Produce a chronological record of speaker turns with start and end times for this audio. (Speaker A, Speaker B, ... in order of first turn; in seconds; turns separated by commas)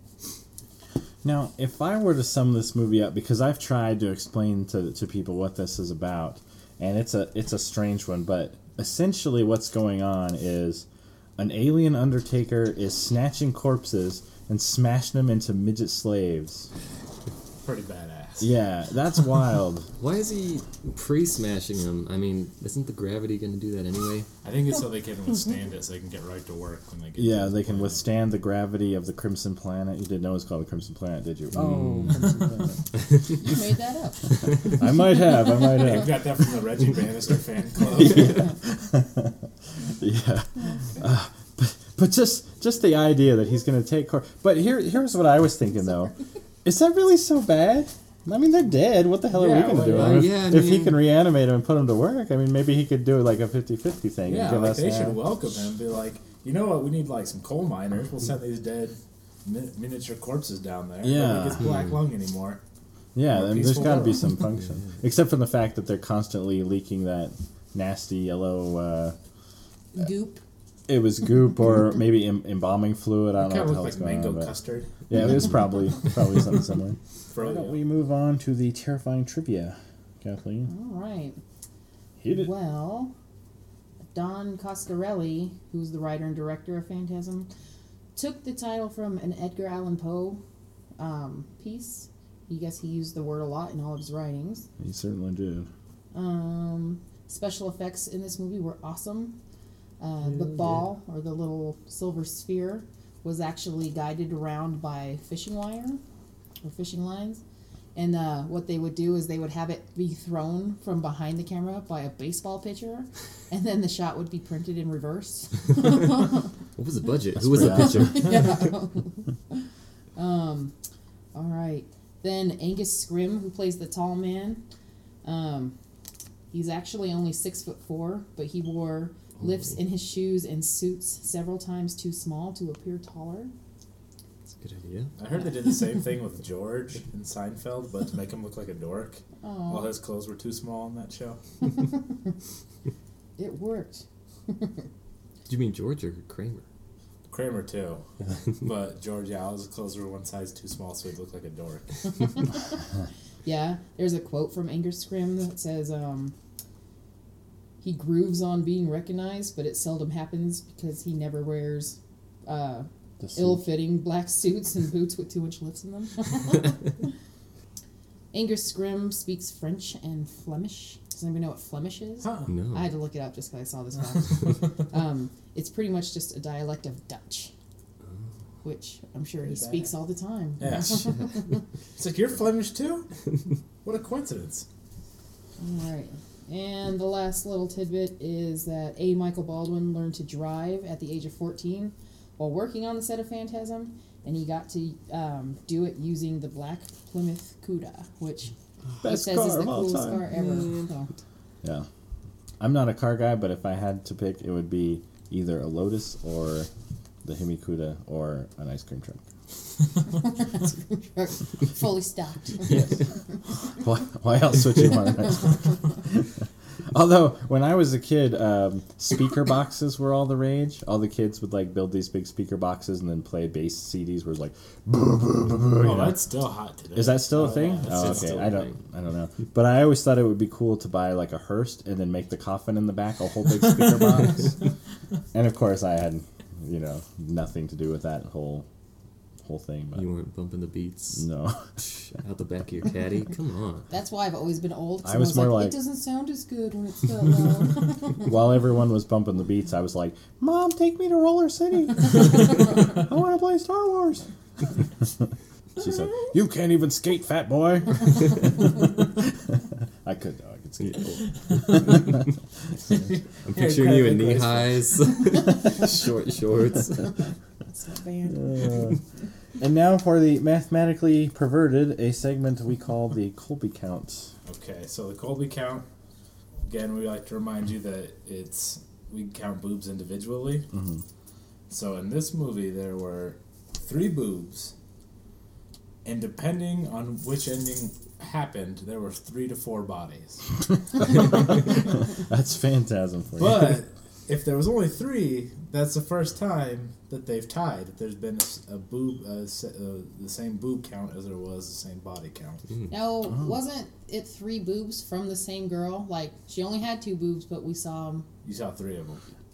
Speaker A: 1.2-10.8, Speaker A: 11.4-16.7, Speaker B: 17.6-18.5, Speaker A: 18.4-19.9, Speaker C: 20.0-24.3, Speaker B: 24.4-28.0, Speaker A: 27.2-32.8, Speaker C: 31.5-32.4, Speaker D: 33.3-34.8, Speaker A: 34.6-36.3, Speaker B: 35.6-38.5, Speaker A: 37.9-39.4, Speaker A: 40.0-46.1, Speaker A: 46.6-55.2, Speaker B: 49.4-50.0, Speaker C: 49.7-51.0, Speaker B: 54.2-62.6, Speaker A: 61.0-61.7, Speaker A: 63.1-69.2, Speaker B: 63.3-64.3, Speaker D: 69.9-70.4, Speaker A: 70.9-74.5, Speaker B: 73.4-75.0, Speaker A: 75.1-80.7, Speaker B: 77.3-77.8, Speaker D: 80.7-81.4, Speaker A: 82.2-82.5, Speaker D: 82.3-83.1, Speaker D: 84.1-87.5, Speaker D: 88.1-90.4, Speaker D: 91.0-94.7, Speaker A: 94.8-95.7, Speaker D: 96.1-99.4, Speaker D: 100.0-106.0, Speaker C: 100.4-100.8, Speaker D: 106.6-107.4, Speaker D: 107.9-116.5, Speaker C: 116.8-118.7, Speaker A: 117.4-118.3, Speaker D: 117.6-119.6, Speaker D: 120.2-120.7, Speaker D: 121.3-124.6, Speaker D: 125.2-125.8, Speaker D: 126.5-133.5, Speaker C: 129.4-129.8, Speaker C: 134.5-135.1, Speaker B: 135.2-141.4, Speaker D: 139.4-139.9, Speaker D: 143.4-144.9, Speaker C: 145.5-146.6, Speaker B: 147.3-148.0, Speaker B: 148.6-151.9, Speaker D: 153.4-156.3, Speaker D: 157.8-167.1, Speaker A: 163.2-163.6, Speaker D: 168.3-177.5, Speaker B: 172.2-172.5, Speaker C: 172.5-172.9, Speaker D: 178.6-181.6, Speaker B: 179.4-179.9, Speaker B: 180.6-181.2, Speaker B: 182.0-183.2, Speaker B: 183.8-184.7, Speaker D: 185.6-201.1, Speaker A: 199.0-200.2, Speaker C: 200.2-200.9, Speaker A: 202.6-206.7, Speaker A: 207.2-209.2, Speaker D: 210.1-213.0, Speaker A: 213.8-216.3, Speaker A: 216.9-226.2, Speaker B: 225.8-228.5, Speaker A: 226.9-234.6, Speaker C: 227.6-228.8, Speaker A: 235.3-238.7, Speaker A: 239.4-240.0, Speaker C: 239.9-241.2, Speaker A: 241.2-241.7, Speaker C: 241.8-243.9, Speaker D: 243.9-248.3, Speaker A: 245.0-245.8, Speaker A: 248.2-254.2, Speaker A: 255.8-262.2, Speaker C: 260.8-262.2, Speaker B: 262.9-264.9, Speaker C: 263.4-267.1, Speaker D: 267.7-268.9, Speaker A: 268.3-269.0, Speaker A: 269.6-274.3, Speaker B: 274.5-275.9, Speaker B: 276.6-280.7, Speaker A: 280.7-281.0, Speaker B: 281.7-284.7, Speaker B: 286.0-290.4, Speaker A: 291.0-293.8, Speaker B: 293.4-302.6, Speaker D: 302.9-308.2, Speaker B: 308.4-309.2